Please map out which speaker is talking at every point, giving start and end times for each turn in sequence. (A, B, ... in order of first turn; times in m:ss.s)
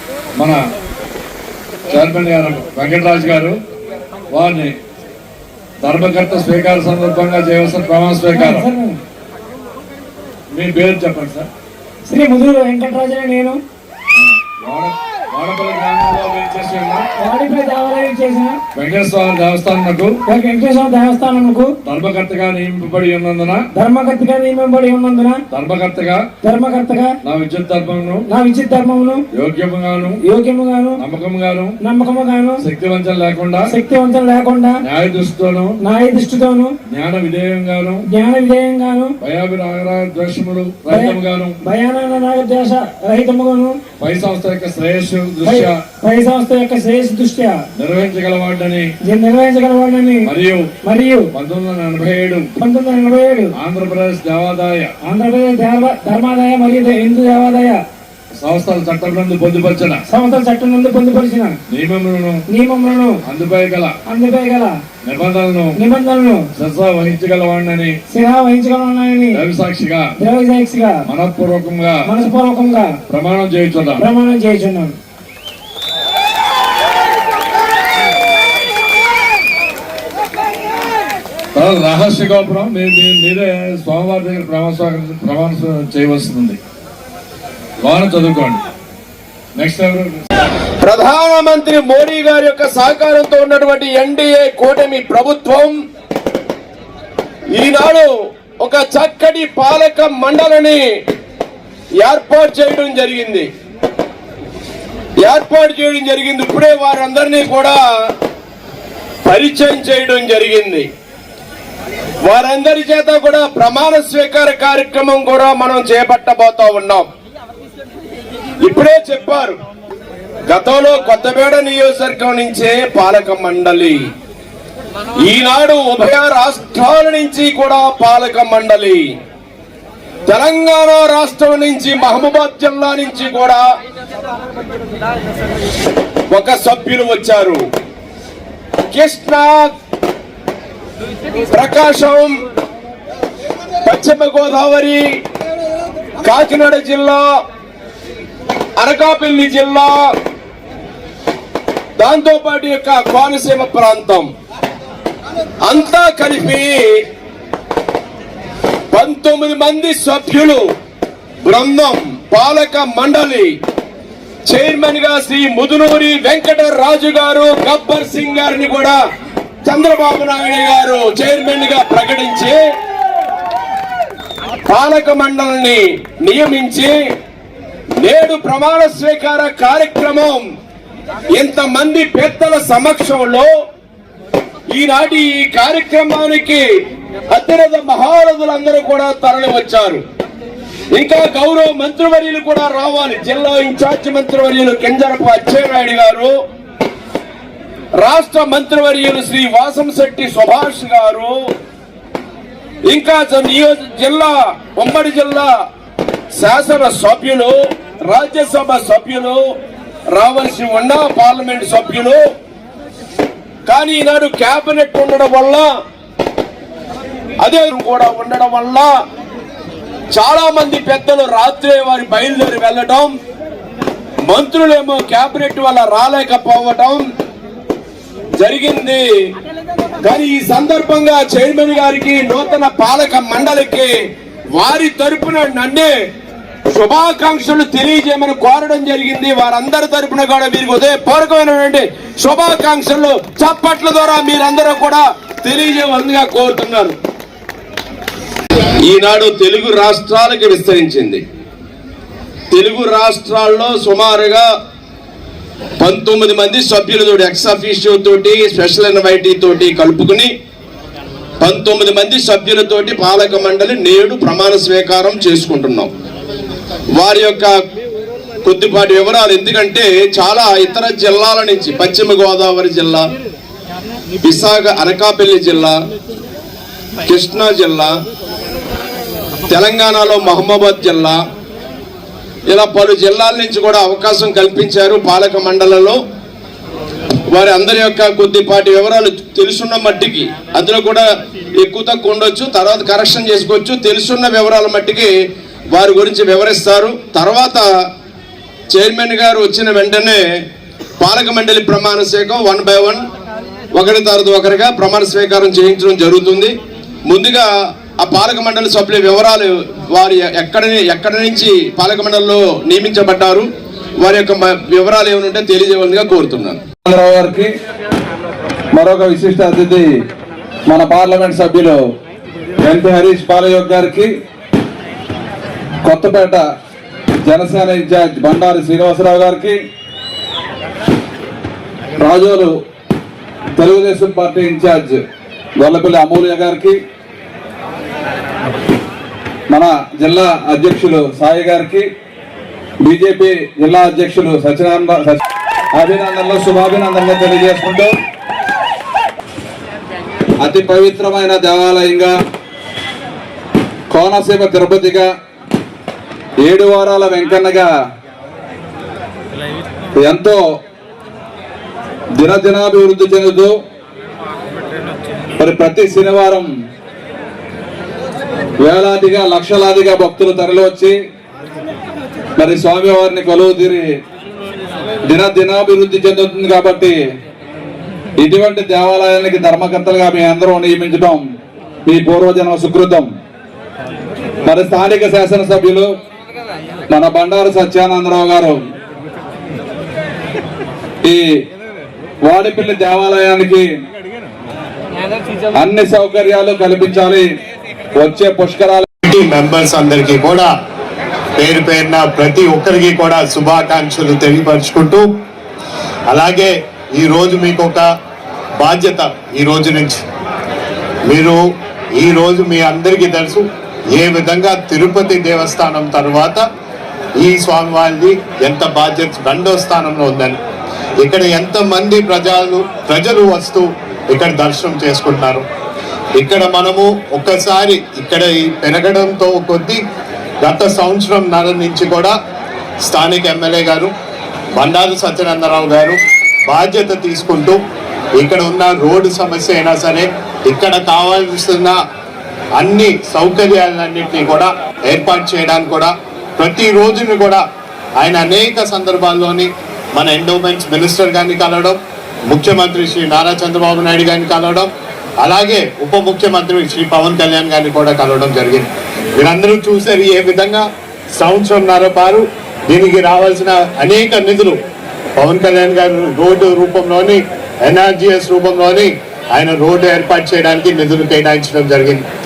0:01.9-0:03.6 A
0:04.3-0:04.7 A
0:05.8-0:08.7 A
0:08.3-0:09.0 B
0:10.5-0:11.5 A
0:12.0-0:13.6 B
0:14.2-0:17.0 A
0:17.2-0:18.6 B
0:18.8-0:20.1 A
0:20.3-0:21.7 B
0:21.8-0:23.6 A
0:23.7-0:25.4 B
0:25.5-0:26.2 A
0:26.4-0:27.2 B
0:27.2-0:28.2 A
0:28.3-0:29.2 B
0:29.3-0:30.2 A
0:30.2-0:31.0 B
0:31.0-0:31.7 A
0:31.8-0:32.6 B
0:32.6-0:33.6 A
0:33.7-0:34.8 B
0:34.8-0:35.8 A
0:35.8-0:36.8 B
0:36.9-0:38.0 A
0:38.1-0:39.2 B
0:39.2-0:41.6 A
0:40.9-0:43.8 B
0:44.0-0:45.8 A
0:45.4-0:47.7 B
0:47.8-0:48.9 A
0:49.0-0:50.3 B
0:50.2-0:50.6 A
0:50.8-0:51.3 B
0:51.3-0:52.5 A
0:52.6-0:53.5 B
0:53.5-0:54.9 A
0:55.0-0:57.8 B
0:58.4-1:00.0 A
1:00.1-1:01.5 B
1:01.7-1:02.4 A
1:02.5-1:03.2 B
1:03.2-1:03.9 A
1:04.0-1:04.7 B
1:05.0-1:05.8 A
1:05.7-1:06.5 B
1:06.6-1:08.0 A
1:08.1-1:09.4 B
1:09.3-1:10.1 A
1:10.2-1:11.0 B
1:11.1-1:12.1 A
1:12.0-1:13.0 B
1:13.1-1:14.0 A
1:14.0-1:15.0 B
1:21.5-1:26.6 A
1:27.8-1:28.6 A
1:29.6-1:30.2 A
1:30.8-1:35.8 C
1:37.5-1:40.8 C
1:42.0-1:43.5 C
1:45.2-1:47.8 C
1:49.2-1:50.9 C
1:52.2-1:57.1 C
1:58.6-1:59.6 C
2:00.5-2:04.0 C
2:05.2-2:09.1 C
2:10.3-2:13.6 C
2:16.3-2:17.6 C
2:18.9-2:19.7 C
2:21.5-2:22.4 C
2:23.8-2:25.1 C
2:26.2-2:27.3 C
2:28.8-2:30.1 C
2:32.0-2:34.3 C
2:35.6-2:37.0 C
2:38.9-2:40.6 C
2:41.4-2:43.5 C
2:44.5-2:49.0 C
2:49.6-2:52.6 C
2:54.7-2:56.9 C
2:58.0-3:00.5 C
3:01.4-3:03.5 C
3:04.7-3:06.6 C
3:07.3-3:10.0 C
3:10.9-3:16.3 C
3:18.0-3:21.4 C
3:22.9-3:25.5 C
3:26.3-3:27.6 C
3:28.1-3:29.4 C
3:30.1-3:32.2 C
3:33.7-3:35.8 C
3:37.4-3:38.9 C
3:40.1-3:43.1 C
3:44.3-3:47.0 C
3:48.4-3:49.1 C
3:50.0-3:54.0 C
3:54.5-3:56.0 C
3:56.7-4:07.0 C
4:08.8-4:11.2 C
4:12.5-4:14.5 C
4:15.8-4:20.3 C
4:21.4-4:25.9 C
4:27.0-4:27.5 C
4:28.4-4:33.1 C
4:34.2-4:35.8 C
4:37.0-4:37.9 C
4:39.5-4:41.2 C
4:42.5-4:46.0 C
4:47.3-4:51.1 C
4:51.6-4:55.1 C
4:55.7-4:57.6 C
4:58.7-5:00.2 C
5:01.0-5:03.0 C
5:03.7-5:06.5 C
5:07.1-5:07.5 C
5:08.0-5:13.5 C
5:14.0-5:16.6 C
5:16.8-5:17.5 D
5:18.7-5:19.9 D
5:20.7-5:21.8 D
5:22.6-5:24.1 D
5:25.8-5:26.4 D
5:27.2-5:29.6 D
5:32.0-5:32.5 D
5:33.6-5:35.0 D
5:35.6-5:36.8 D
5:39.5-5:41.9 D
5:42.8-5:45.2 D
5:45.7-5:47.9 D
5:50.4-5:52.1 D
5:53.9-5:55.1 D
5:56.4-5:57.7 D
5:59.9-6:00.4 D
6:02.2-6:03.5 D
6:05.4-6:06.5 D
6:08.6-6:11.0 D
6:12.4-6:13.9 D
6:15.0-6:17.0 D
6:18.2-6:21.2 D
6:21.8-6:23.1 D
6:24.4-6:25.9 D
6:26.9-6:28.6 D
6:32.2-6:33.6 D
6:35.6-6:37.3 D
6:38.0-6:38.8 D
6:39.0-6:40.5 E
6:41.4-6:45.1 E
6:46.1-6:47.8 E
6:48.6-6:50.0 E
6:51.1-6:51.4 E
6:52.0-6:56.4 E
6:57.2-7:00.4 E
7:01.0-7:05.4 E
7:06.2-7:09.8 E
7:10.4-7:12.1 E
7:12.8-7:13.9 E
7:14.6-7:17.6 E
7:18.2-7:21.7 E
7:22.6-7:27.4 E
7:28.0-7:31.8 E
7:32.3-7:34.7 E
7:35.2-7:40.6 E
7:41.2-7:44.6 E
7:45.2-7:52.0 E